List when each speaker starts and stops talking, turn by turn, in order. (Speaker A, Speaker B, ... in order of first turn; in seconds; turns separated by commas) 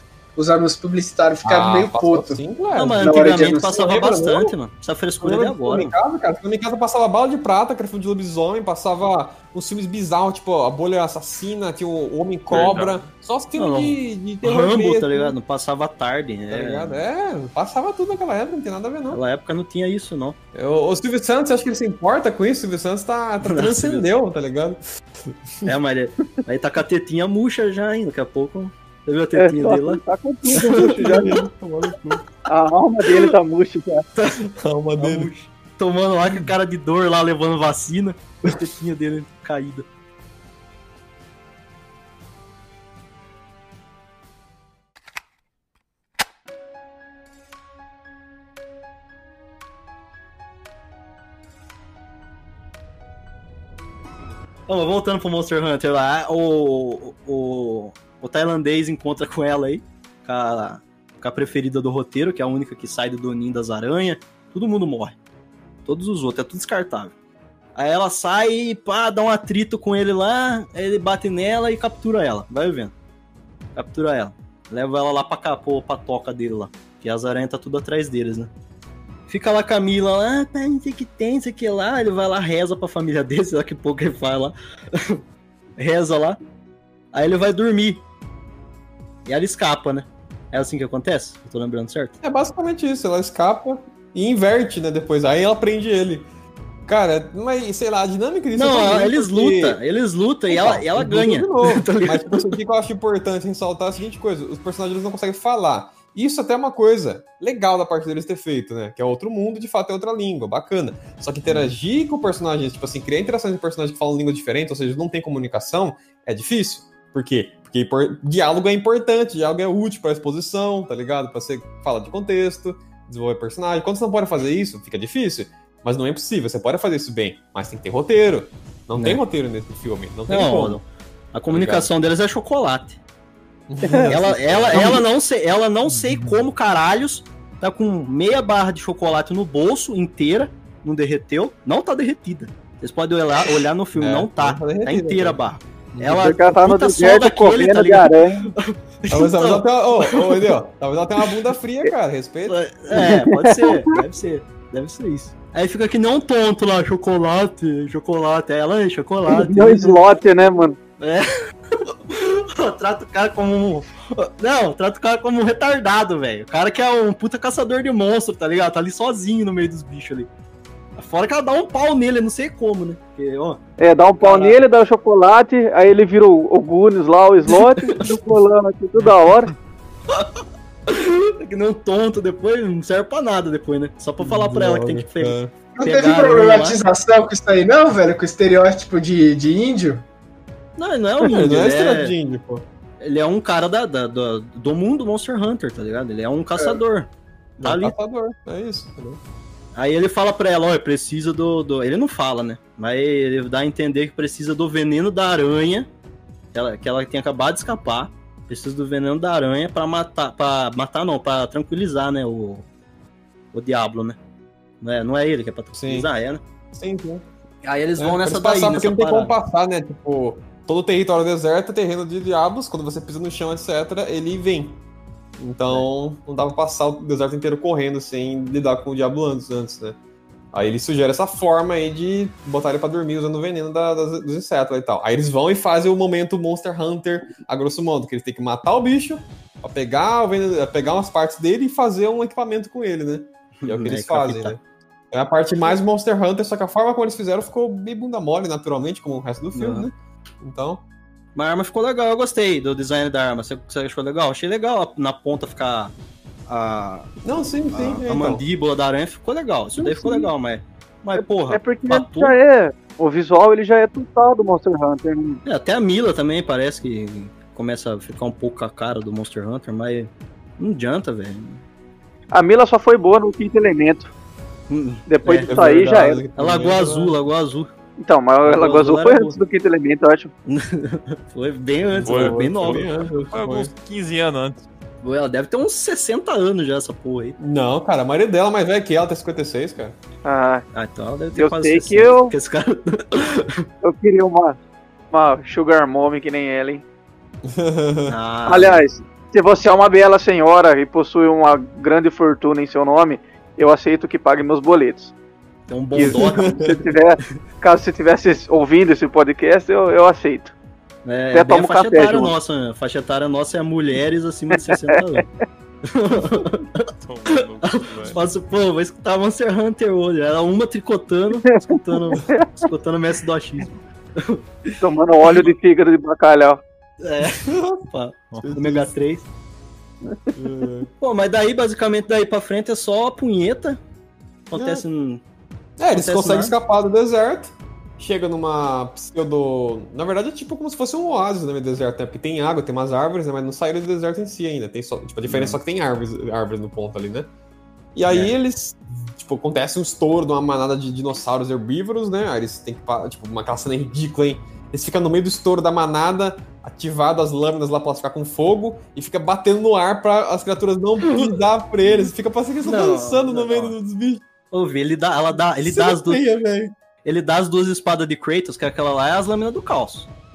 Speaker A: 0.4-2.4, Speaker B: 1.4-4.5, Speaker C: 2.8-6.0, Speaker A: 3.0-3.8, Speaker B: 5.2-15.3, Speaker D: 12.5-13.1, Speaker C: 13.6-17.0, Speaker B: 16.5-19.2, Speaker C: 19.1-20.4, Speaker B: 20.5-25.7, Speaker C: 23.4-24.1, Speaker C: 25.7-30.0, Speaker E: 29.4-31.4, Speaker B: 30.5-32.1, Speaker C: 30.6-31.3, Speaker E: 32.5-34.0, Speaker C: 34.2-34.5, Speaker B: 34.5-35.3, Speaker C: 35.0-39.9, Speaker C: 54.7-65.2, Speaker C: 65.9-67.1, Speaker C: 67.8-72.9, Speaker C: 73.8-78.5, Speaker C: 79.3-85.2, Speaker C: 85.8-86.4, Speaker C: 87.1-88.0, Speaker C: 89.3-92.2, Speaker B: 92.2-96.3, Speaker B: 96.9-99.8, Speaker C: 98.5-102.4, Speaker B: 100.5-130.8, Speaker C: 111.5-111.7, Speaker C: 130.3-133.0, Speaker B: 131.5-131.9, Speaker B: 133.7-135.0, Speaker E: 133.8-134.1, Speaker C: 134.1-150.5, Speaker B: 144.0-145.4, Speaker B: 145.9-146.4, Speaker E: 146.2-148.5, Speaker B: 149.1-152.6, Speaker C: 152.5-160.1, Speaker E: 152.9-153.9, Speaker E: 159.3-160.8, Speaker C: 161.0-170.3, Speaker C: 171.0-173.6, Speaker E: 173.8-179.5, Speaker C: 174.2-174.6, Speaker C: 177.8-178.1, Speaker C: 180.1-186.8, Speaker B: 184.2-185.5, Speaker A: 185.8-190.1, Speaker C: 190.8-192.2, Speaker B: 191.3-192.7, Speaker C: 193.0-197.1, Speaker A: 196.6-196.8, Speaker B: 197.6-199.2, Speaker C: 197.6-197.9, Speaker C: 199.8-205.9, Speaker C: 206.5-212.7, Speaker C: 213.5-214.2, Speaker C: 214.8-216.4, Speaker B: 215.7-216.1, Speaker B: 216.7-217.3, Speaker C: 217.6-219.3, Speaker B: 218.0-224.8, Speaker B: 225.4-230.0, Speaker B: 230.5-244.6, Speaker C: 243.6-244.6, Speaker B: 245.1-250.8, Speaker C: 249.6-249.9, Speaker C: 251.4-255.9, Speaker C: 256.5-262.4, Speaker B: 257.2-258.4, Speaker E: 259.8-260.3, Speaker E: 261.2-265.4, Speaker C: 265.4-271.6, Speaker E: 272.3-274.1, Speaker C: 274.7-275.5, Speaker E: 275.1-276.2, Speaker B: 275.5-277.2, Speaker C: 276.4-277.7, Speaker E: 278.0-280.3, Speaker C: 278.4-279.4, Speaker C: 280.5-282.8, Speaker B: 281.9-283.7, Speaker D: 282.0-284.7, Speaker C: 285.0-287.4, Speaker B: 287.4-290.0, Speaker E: 290.2-290.6, Speaker C: 290.7-293.7, Speaker E: 291.3-292.3, Speaker E: 293.8-294.6, Speaker E: 295.1-296.8, Speaker B: 297.4-298.1, Speaker C: 298.1-298.8, Speaker E: 298.5-305.1, Speaker C: 305.7-306.6, Speaker B: 305.9-306.8, Speaker E: 306.6-310.5, Speaker C: 311.1-315.3, Speaker E: 311.3-312.3, Speaker E: 314.6-315.0, Speaker C: 315.9-324.7, Speaker D: 316.9-318.2, Speaker E: 321.5-322.5, Speaker E: 324.8-326.6, Speaker C: 327.0-329.3, Speaker B: 327.3-327.8, Speaker B: 328.4-328.9, Speaker B: 330.4-330.9, Speaker C: 331.0-333.8, Speaker C: 334.5-335.2, Speaker B: 334.5-334.8, Speaker B: 335.8-347.3, Speaker C: 335.9-336.6, Speaker C: 345.3-345.6, Speaker B: 347.9-364.2, Speaker C: 348.1-348.3, Speaker C: 362.6-363.8, Speaker C: 364.5-366.2, Speaker B: 365.6-366.7, Speaker C: 367.1-370.1